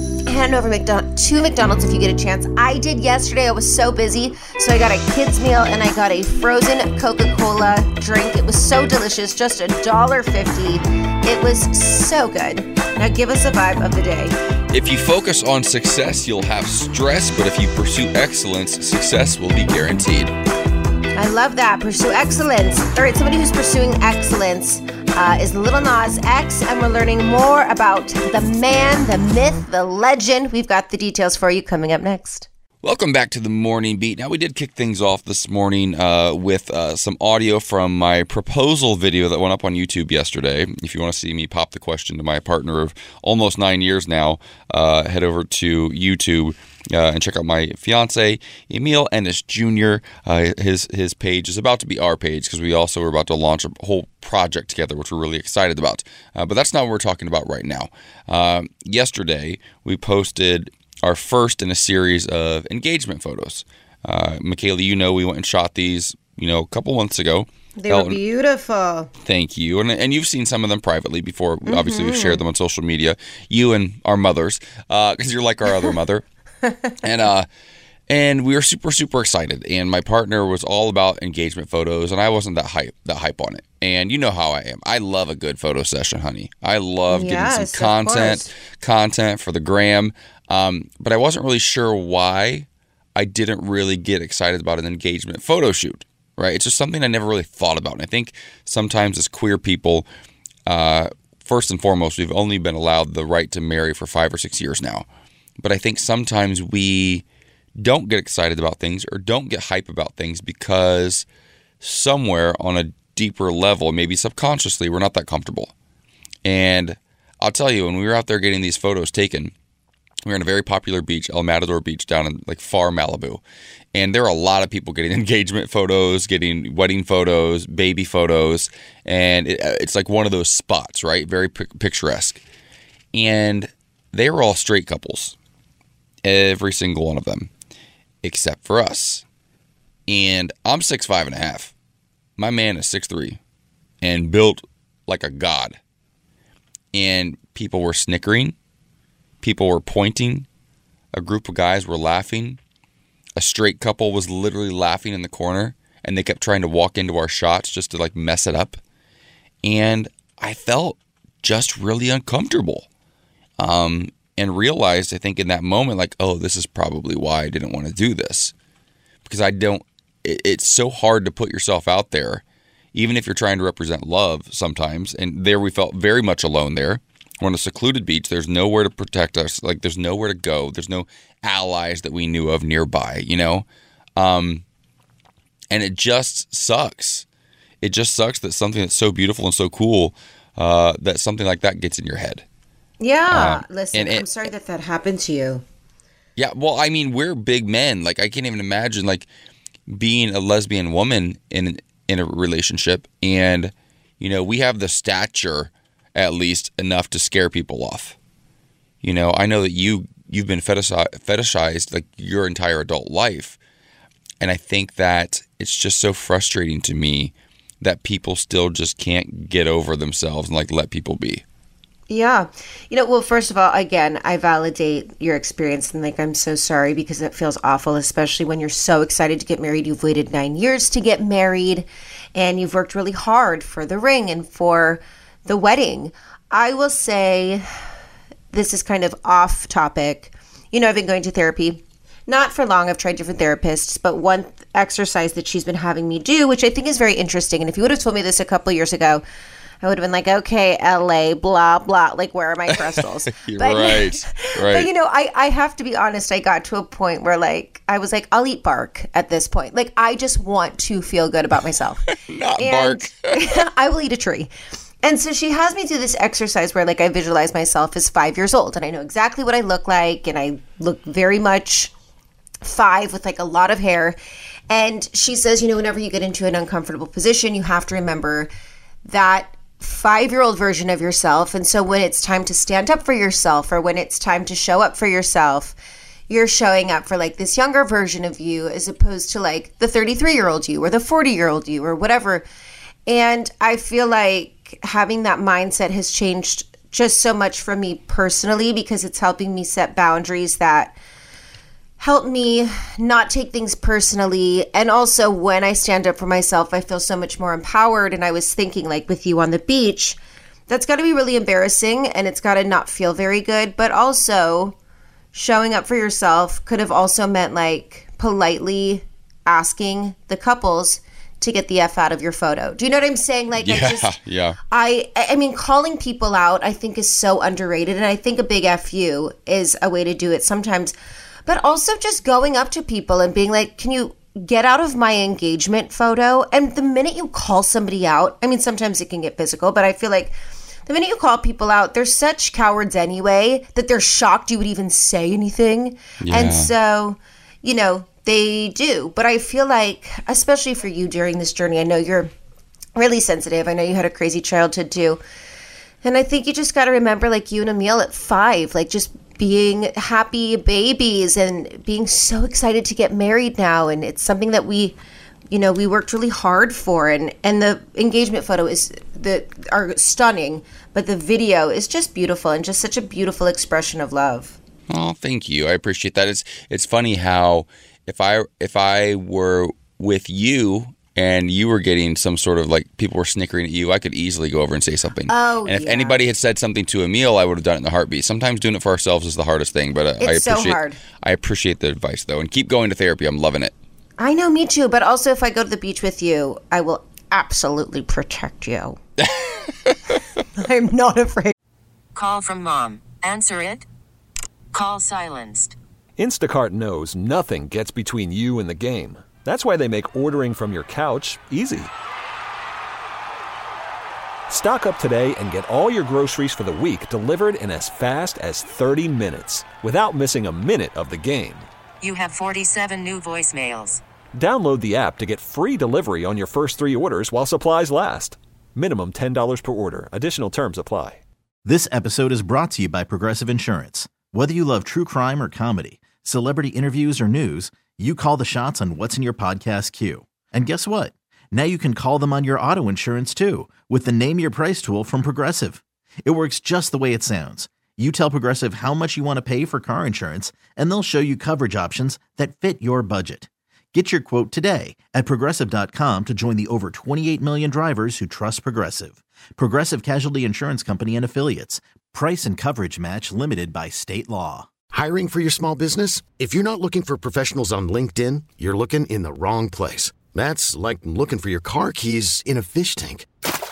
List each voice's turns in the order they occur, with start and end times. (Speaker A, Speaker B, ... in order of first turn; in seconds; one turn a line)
Speaker A: 0.3-14.3
Speaker B: 14.7-20.3
Speaker A: 21.2-32.5
Speaker B: 32.8-68.2
Speaker A: 67.8-69.1
Speaker B: 69.2-76.2
Speaker A: 71.7-72.4
Speaker B: 77.0-77.5
Speaker B: 78.1-100.1
Speaker A: 87.1-88.5
Speaker B: 100.7-105.1
Speaker B: 105.6-107.2
Speaker B: 107.8-111.3
Speaker B: 111.8-115.7
Speaker B: 116.4-119.5
Speaker B: 120.2-123.4
Speaker B: 123.9-132.4
Speaker B: 133.1-135.4
Speaker B: 136.2-137.5
Speaker B: 138.2-139.2
Speaker B: 140.1-141.7
Speaker B: 142.4-143.4
Speaker B: 144.0-145.8
Speaker B: 146.9-148.6
Speaker B: 149.4-150.5
Speaker B: 151.1-152.6
Speaker B: 153.4-158.8
Speaker B: 159.6-162.9
Speaker B: 163.6-168.5
Speaker B: 169.3-172.4
Speaker B: 172.9-183.7
Speaker B: 184.2-184.6
Speaker B: 185.7-187.3
Speaker B: 187.8-192.4
Speaker A: 193.0-195.6
Speaker B: 193.3-194.3
Speaker B: 196.4-199.3
Speaker B: 199.9-208.2
Speaker B: 209.0-213.6
Speaker B: 214.4-221.4
Speaker A: 222.1-237.7
Speaker A: 238.5-249.2
Speaker A: 249.8-264.5
Speaker B: 253.3-254.9
Speaker B: 262.2-263.3
Speaker A: 265.0-271.9
Speaker A: 272.6-274.2
Speaker A: 274.7-278.5
Speaker A: 279.1-285.8
Speaker A: 286.3-292.4
Speaker A: 293.1-301.0
Speaker A: 302.0-310.2
Speaker A: 310.7-314.8
Speaker A: 315.3-324.1
Speaker B: 323.6-324.6
Speaker A: 324.7-330.9
Speaker A: 331.5-352.3
Speaker B: 346.2-346.7
Speaker A: 353.0-355.2
Speaker A: 356.0-365.0
Speaker A: 365.5-374.6
Speaker B: 374.9-393.7
Speaker A: 385.3-386.2
Speaker A: 390.2-391.0
Speaker A: 394.2-399.0
Speaker B: 399.2-400.2
Speaker A: 400.6-401.5
Speaker C: 402.2-403.8
Speaker C: 404.7-405.7
Speaker D: 406.2-411.9
Speaker D: 414.5-421.7
Speaker C: 422.0-424.0
Speaker D: 424.4-431.2
Speaker E: 431.6-464.7
Speaker F: 464.9-473.3